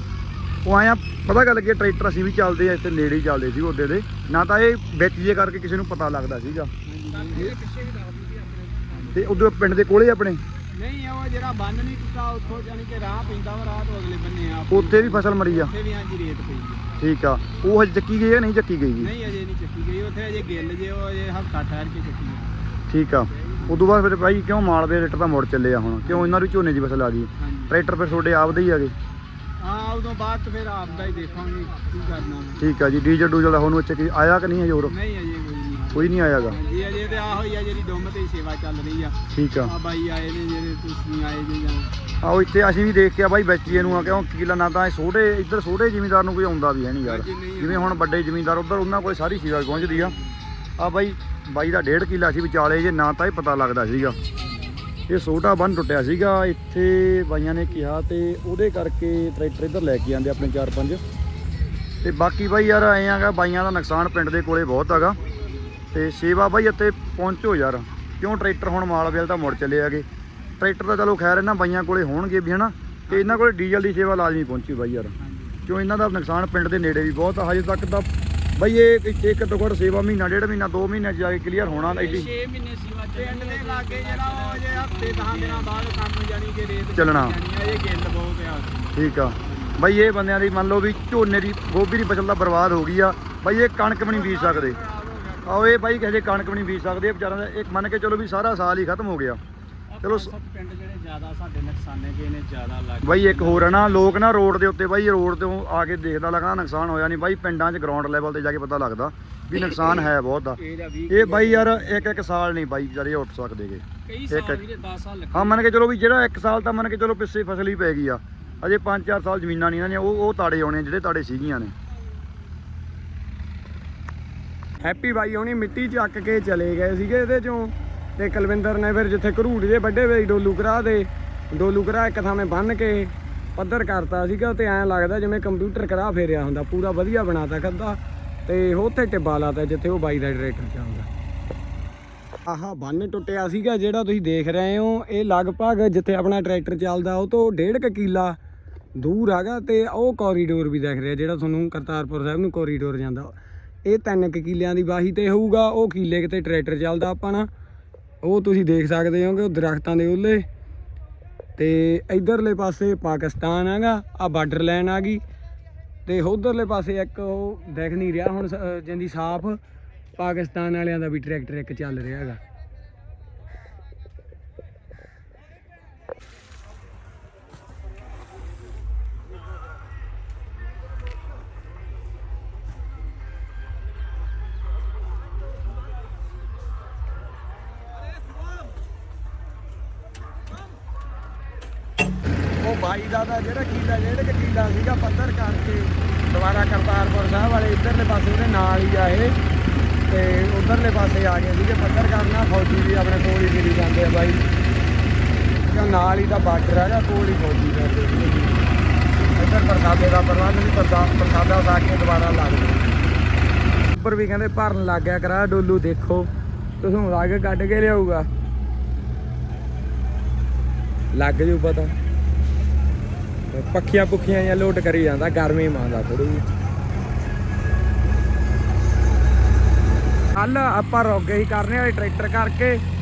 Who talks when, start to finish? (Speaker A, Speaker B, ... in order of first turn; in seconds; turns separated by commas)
Speaker A: 0.6-6.7, Speaker B: 6.9-9.5, Speaker A: 9.1-10.4, Speaker B: 10.7-17.0, Speaker A: 14.7-15.7, Speaker A: 17.0-19.1, Speaker B: 19.0-22.6, Speaker A: 22.9-28.9, Speaker B: 23.4-23.9, Speaker B: 26.1-26.4, Speaker B: 27.4-27.8, Speaker B: 29.6-32.6, Speaker A: 32.6-34.9, Speaker B: 34.9-41.9, Speaker A: 35.9-36.6, Speaker A: 39.3-39.8, Speaker A: 42.2-50.2, Speaker B: 43.7-44.2, Speaker B: 47.0-48.0, Speaker B: 49.7-50.3, Speaker A: 50.8-54.2, Speaker B: 54.4-54.8, Speaker A: 55.1-61.0, Speaker A: 62.0-65.2, Speaker B: 65.1-65.7, Speaker A: 65.9-70.1, Speaker A: 70.6-75.1, Speaker B: 73.1-73.5, Speaker B: 75.2-75.6, Speaker A: 75.7-82.3, Speaker B: 81.6-88.9, Speaker A: 86.9-87.4, Speaker A: 88.9-94.8, Speaker B: 89.4-89.8, Speaker B: 94.0-95.8, Speaker A: 95.5-99.4, Speaker B: 99.9-104.2, Speaker A: 100.0-100.3, Speaker A: 103.0-114.7, Speaker B: 110.6-112.3, Speaker B: 114.1-115.6, Speaker A: 115.3-121.7, Speaker C: 124.8-141.1, Speaker C: 142.5-148.4, Speaker C: 149.0-153.3, Speaker C: 153.8-157.5, Speaker C: 158.2-160.4, Speaker C: 161.6-165.2, Speaker C: 166.1-169.6, Speaker C: 170.2-172.4, Speaker C: 192.6-199.3, Speaker C: 200.1-204.4, Speaker C: 205.7-208.7, Speaker C: 209.4-212.8, Speaker D: 213.9-216.3, Speaker D: 216.8-218.3, Speaker D: 221.1-221.9, Speaker D: 223.5-226.4, Speaker D: 230.3-232.8